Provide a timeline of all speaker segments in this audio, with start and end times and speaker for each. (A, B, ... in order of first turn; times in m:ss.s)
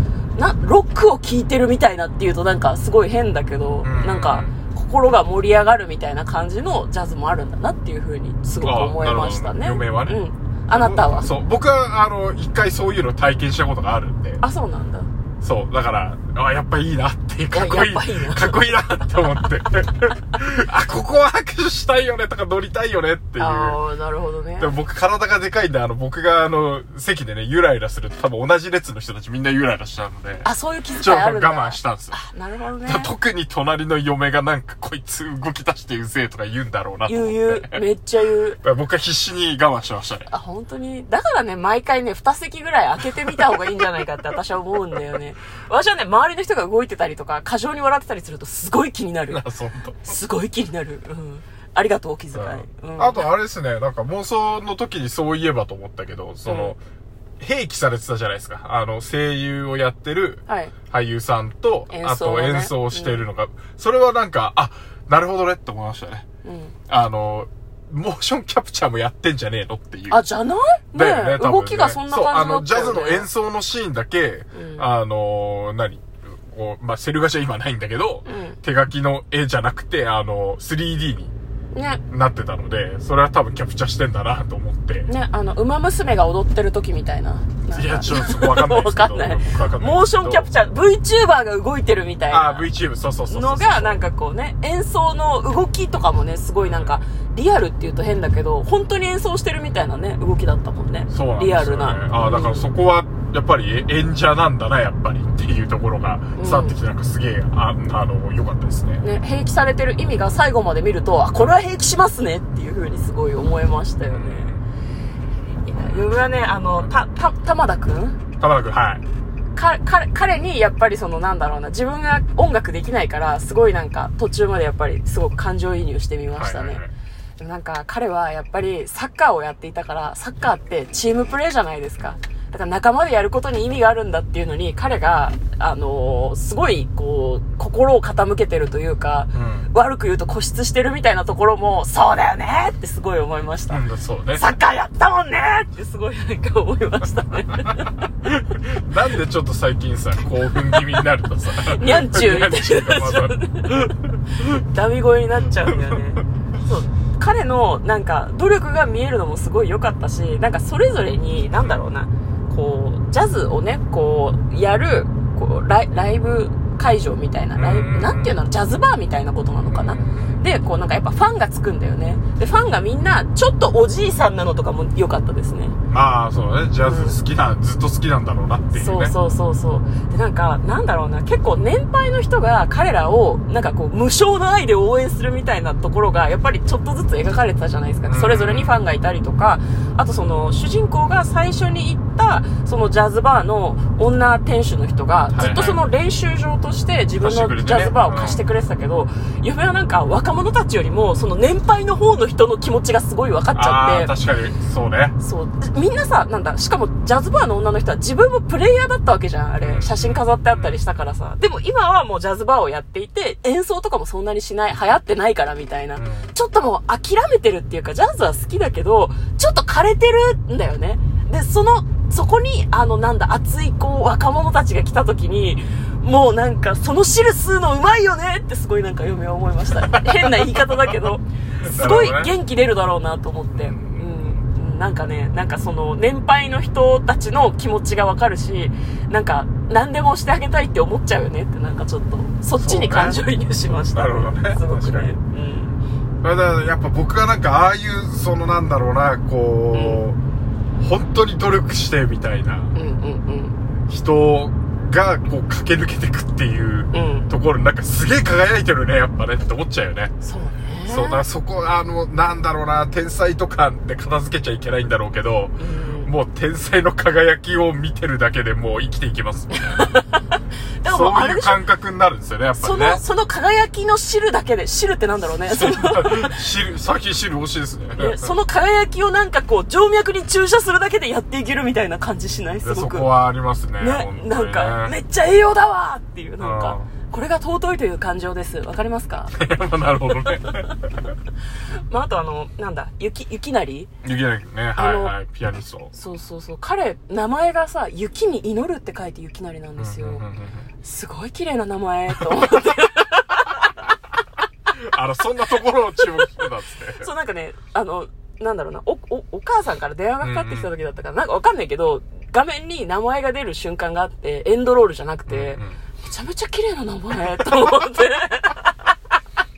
0:00.4-0:11.3 A
0:03.8-0:04.6 B
0:08.6-0:14.4 B
0:14.4-0:15.1 A
0:15.4-0:23.8 B
0:17.5-0:18.8 A
0:23.4-0:24.7 A
0:24.6-0:32.2 B
0:30.4-0:33.1 A
0:32.8-0:37.8 B
0:37.1-0:38.6 A
0:38.6-0:40.3 B
0:40.3-0:49.4 A
0:43.4-0:43.7 B
0:49.3-0:50.2 B
0:50.0-0:53.2 A
0:52.3-0:56.8 B
0:56.4-0:56.8 A
0:57.4-1:06.2 B
1:00.5-1:00.7 A
1:01.9-1:03.2 A
1:06.4-1:06.8 A
1:06.9-1:10.2 B
1:10.1-1:13.3 A
1:10.9-1:21.3 B
1:14.5-1:14.9 A
1:18.3-1:18.6 A
1:21.7-1:22.0 A
1:22.1-1:25.1 B
1:25.1-1:32.7 A
1:27.7-1:30.5 B
1:32.3-1:34.0 B
1:33.3-1:42.7 A
1:36.6-1:37.0 B
1:41.1-1:49.0 B
1:46.4-1:46.8 A
1:49.0-1:54.5 A
1:54.1-1:54.6 B
1:55.7-1:58.2 A
1:55.8-1:56.2 B
1:58.4-1:59.0 B
1:59.6-2:06.8 A
2:06.3-2:06.9 B
2:07.4-2:23.8 A
2:19.3-2:19.7 B
2:23.7-2:24.5 B
2:24.3-2:28.0 A
2:28.2-2:34.5 B
2:30.7-2:31.0 A
2:31.6-2:55.8 A
2:41.5-2:41.8 B
2:47.6-2:48.4 B
2:49.7-2:50.4 B
2:55.9-2:59.2 B
2:56.8-2:57.2 A
2:58.8-3:24.1 A
3:08.1-3:08.8 B
3:15.3-3:15.8 B
3:17.2-3:18.4 B
3:23.5-3:25.2 B
3:25.2-4:05.8 A
3:29.6-3:30.8 B
3:36.0-3:36.3 B
3:49.9-3:50.6 B
3:51.6-3:52.4 B
3:53.5-3:54.4 B
4:02.6-4:03.2 B
4:03.7-4:05.2 B
4:06.2-4:10.2 B
4:09.7-4:10.0 A
4:10.8-4:12.7 B
4:12.8-4:13.6 A
4:13.9-4:20.1 B
4:16.9-4:17.3 A
4:20.2-4:21.2 A
4:20.9-4:29.9 B
4:25.6-4:26.1 A
4:29.5-4:31.6 A
4:30.8-4:33.0 B
4:32.6-4:36.4 A
4:35.4-4:38.3 B
4:38.0-4:43.2 A
4:42.6-4:45.0 B
4:43.8-4:49.3 A
4:46.4-4:46.9 B
4:49.3-4:50.7 B
4:50.1-4:50.7 A
4:51.9-4:53.9 A
4:54.0-4:55.9 B
4:54.8-4:55.1 A
4:55.9-5:00.2 A
4:59.8-5:00.7 B
5:00.8-5:03.9 A
5:02.4-5:02.6 B
5:04.7-5:07.1 B
5:06.0-5:06.4 A
5:07.0-5:18.9 A
5:10.2-5:10.7 B
5:15.3-5:15.8 B